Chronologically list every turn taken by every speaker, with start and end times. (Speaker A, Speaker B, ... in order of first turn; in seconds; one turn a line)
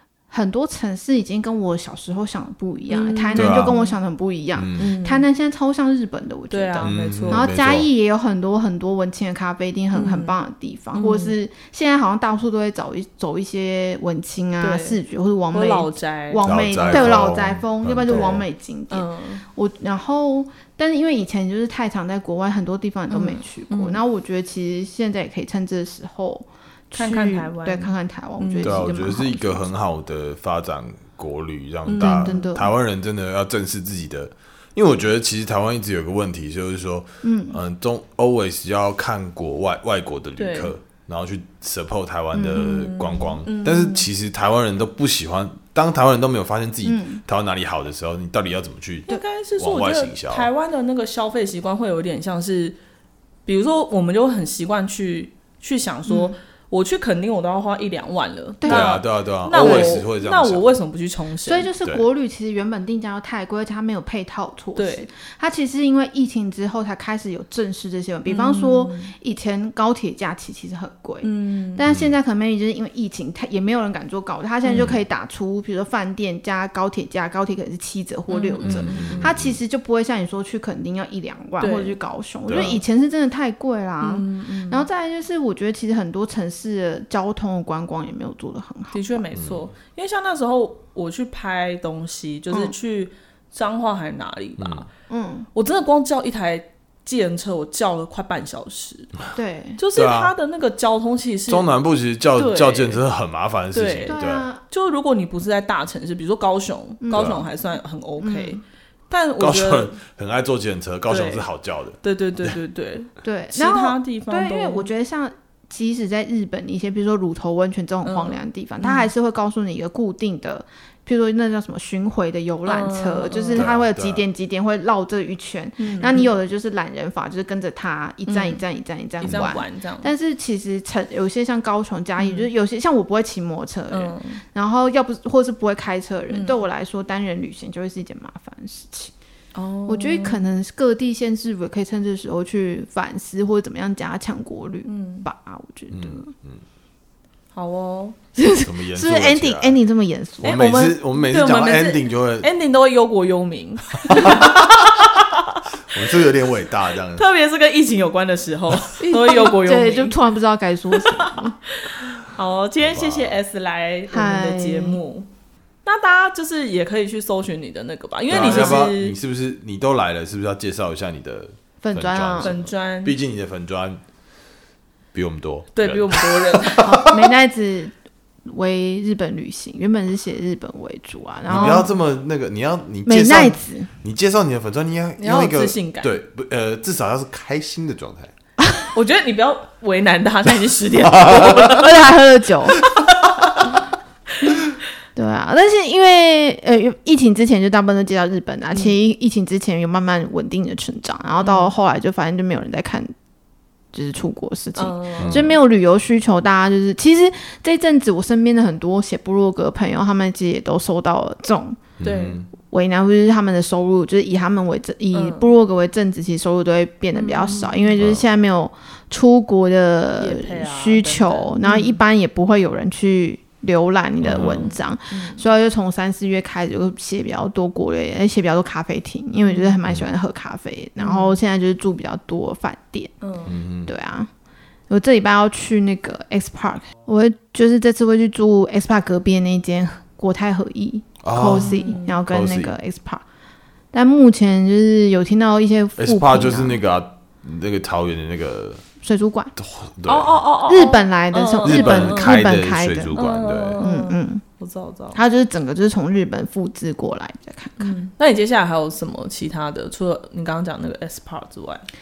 Speaker A: 0.3-29.6
Speaker B: 2.9-4.0
Speaker C: 3.4-3.8
Speaker C: 4.5-4.8
Speaker B: 4.8-5.2
Speaker B: 6.5-7.5
Speaker C: 6.8-7.9
Speaker B: 9.9-10.4
Speaker B: 10.9-11.3
Speaker B: 14.6-15.0
Speaker B: 15.5-17.1
Speaker C: 16.4-18.5
Speaker B: 18.1-18.4
Speaker B: 18.9-19.4
Speaker B: 23.1-24.0
Speaker B: 26.9-28.9
Speaker C: 28.6-50.5
Speaker B: 31.9-32.5
Speaker A: 32.0-32.7
Speaker A: 37.2-37.6
Speaker B: 40.4-40.7
Speaker A: 42.3-42.9
Speaker B: 42.6-44.0
Speaker A: 46.9-47.2
Speaker B: 49.1-52.8
Speaker B: 53.5-61.7
Speaker A: 56.1-56.4
Speaker A: 58.6-60.0
Speaker C: 58.7-60.7
Speaker A: 61.5-89.2
Speaker B: 64.8-65.1
Speaker B: 68.3-69.1
Speaker B: 71.2-71.8
Speaker C: 71.9-72.1
Speaker B: 74.6-74.9
Speaker B: 78.3-79.3
Speaker C: 78.6-79.6
Speaker B: 81.6-82.0
Speaker C: 82.5-82.8
Speaker B: 84.0-84.8
Speaker B: 88.9-94.9
Speaker C: 89.3-89.7
Speaker C: 94.6-94.9
Speaker A: 95.1-95.5
Speaker B: 95.5-99.1
Speaker A: 99.3-99.8
Speaker B: 99.8-101.7
Speaker C: 99.9-100.3
Speaker C: 101.5-104.5
Speaker B: 102.3-103.0
Speaker B: 103.7-104.2
Speaker A: 104.0-104.6
Speaker B: 104.7-109.9
Speaker A: 107.0-107.5
Speaker C: 107.1-107.4
Speaker A: 108.2-108.6
Speaker C: 109.4-112.5
Speaker B: 111.1-111.5
Speaker B: 112.0-114.9
Speaker A: 113.2-139.1
Speaker B: 118.0-119.1
Speaker B: 122.7-123.7
Speaker C: 123.5-124.2
Speaker B: 125.8-126.3
Speaker B: 128.3-128.6
Speaker B: 129.2-130.1
Speaker C: 129.2-129.5
Speaker B: 132.2-132.5
Speaker B: 133.9-134.4
Speaker B: 136.3-136.6
Speaker B: 139.5-140.4
Speaker A: 139.9-146.3
Speaker B: 144.9-145.3
Speaker C: 145.9-146.6
Speaker B: 147.5-148.2
Speaker A: 148.4-150.6
Speaker C: 148.6-149.8
Speaker C: 150.4-152.5
Speaker B: 150.4-155.6
Speaker C: 154.1-154.7
Speaker C: 155.9-157.2
Speaker B: 157.1-160.2
Speaker A: 159.0-161.6
Speaker B: 161.0-165.3
Speaker C: 162.8-163.4
Speaker A: 164.1-165.0
Speaker B: 165.8-169.2
Speaker C: 168.3-174.0
Speaker A: 168.3-168.8
Speaker A: 171.8-172.6
Speaker B: 172.4-173.2
Speaker C: 175.1-177.1
Speaker B: 175.8-177.1
Speaker A: 176.8-177.9
Speaker A: 178.5-181.9
Speaker C: 181.5-188.3
Speaker B: 181.5-181.9
Speaker A: 183.1-183.9
Speaker B: 185.2-186.1
Speaker B: 188.9-192.1
Speaker C: 191.1-191.7
Speaker A: 191.3-192.8
Speaker A: 195.1-203.1
Speaker B: 201.4-201.7
Speaker A: 203.9-211.9
Speaker B: 204.8-205.5
Speaker C: 205.2-205.5
Speaker C: 212.0-212.5
Speaker B: 212.0-212.4
Speaker A: 212.6-233.1
Speaker B: 215.1-215.5
Speaker B: 217.1-217.9
Speaker C: 218.0-218.2
Speaker B: 220.2-222.0
Speaker C: 224.2-224.7
Speaker B: 224.3-225.4
Speaker B: 229.4-229.8
Speaker B: 231.0-231.4
Speaker B: 233.2-233.5
Speaker C: 233.5-233.9
Speaker A: 233.9-234.3
Speaker A: 234.9-243.2
Speaker C: 241.2-242.7
Speaker B: 241.5-242.2
Speaker A: 243.9-246.8
Speaker C: 246.0-248.8
Speaker A: 249.0-249.5
Speaker C: 249.6-250.4
Speaker B: 250.1-252.4
Speaker A: 250.7-253.1
Speaker C: 251.6-253.8
Speaker B: 253.1-255.2
Speaker A: 253.8-254.4
Speaker A: 255.1-258.0
Speaker B: 257.8-261.9